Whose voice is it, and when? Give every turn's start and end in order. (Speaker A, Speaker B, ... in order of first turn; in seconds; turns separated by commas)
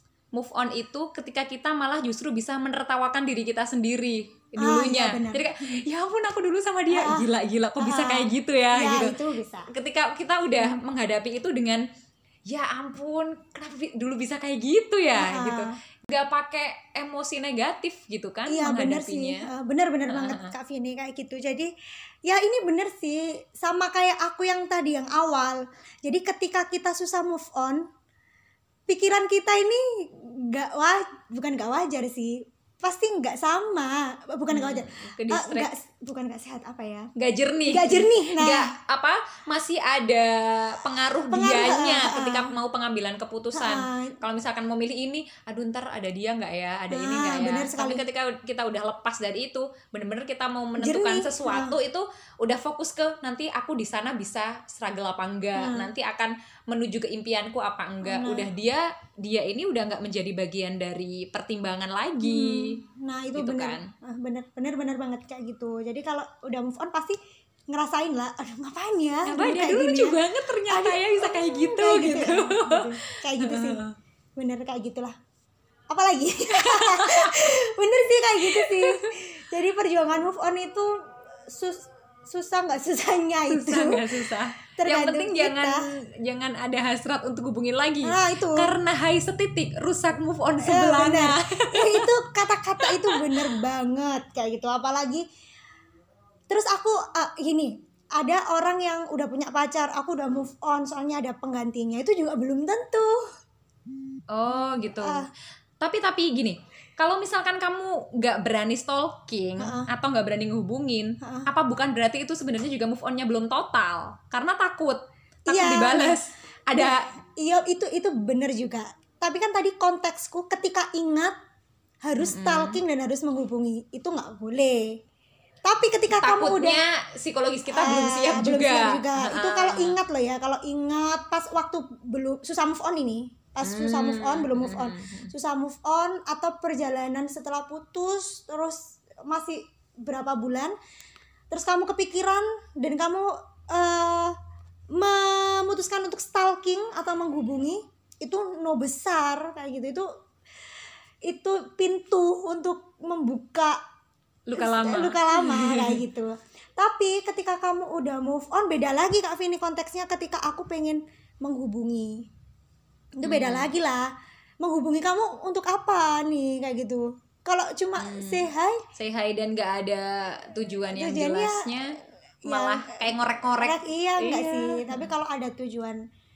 Speaker A: 0.3-9.2, Speaker B: 4.6-5.8, Speaker B: 6.9-7.3, Speaker B: 7.8-9.7, Speaker A: 9.7-11.8, Speaker A: 12.5-19.5, Speaker B: 15.1-15.7, Speaker B: 18.5-21.7, Speaker A: 20.1-20.5, Speaker B: 22.3-27.8, Speaker B: 28.9-37.1, Speaker A: 34.5-35.7, Speaker A: 37.2-62.8, Speaker B: 37.7-38.7, Speaker B: 41.3-42.5, Speaker B: 43.5-44.2, Speaker B: 46.9-48.0, Speaker B: 50.8-51.8, Speaker B: 55.6-55.9, Speaker B: 58.0-58.5, Speaker B: 62.2-67.2, Speaker A: 63.4-63.9, Speaker B: 67.7-70.2, Speaker A: 69.3-74.0, Speaker B: 70.7-73.8, Speaker B: 74.4-75.1, Speaker B: 75.9-85.8, Speaker A: 76.6-77.5, Speaker A: 78.4-79.1, Speaker A: 83.5-92.1, Speaker B: 88.0-88.7, Speaker B: 90.6-95.2, Speaker A: 92.8-93.6, Speaker B: 96.5-103.2, Speaker A: 104.3-105.3, Speaker B: 105.0-105.3, Speaker A: 105.8-117.1, Speaker B: 109.6-109.9, Speaker B: 111.2-111.5, Speaker B: 115.5-116.2, Speaker B: 116.8-121.3, Speaker B: 122.0-125.0, Speaker A: 122.2-122.8, Speaker B: 125.7-126.8, Speaker A: 126.1-130.0, Speaker B: 127.7-140.8, Speaker A: 133.6-135.3, Speaker B: 141.5-144.3, Speaker B: 145.0-150.1, Speaker B: 151.3-153.8, Speaker A: 154.5-156.0, Speaker B: 154.6-162.2, Speaker B: 163.2-164.1, Speaker A: 163.2-163.7, Speaker B: 164.6-168.8, Speaker A: 168.0-175.1, Speaker B: 170.9-171.7, Speaker B: 172.4-176.0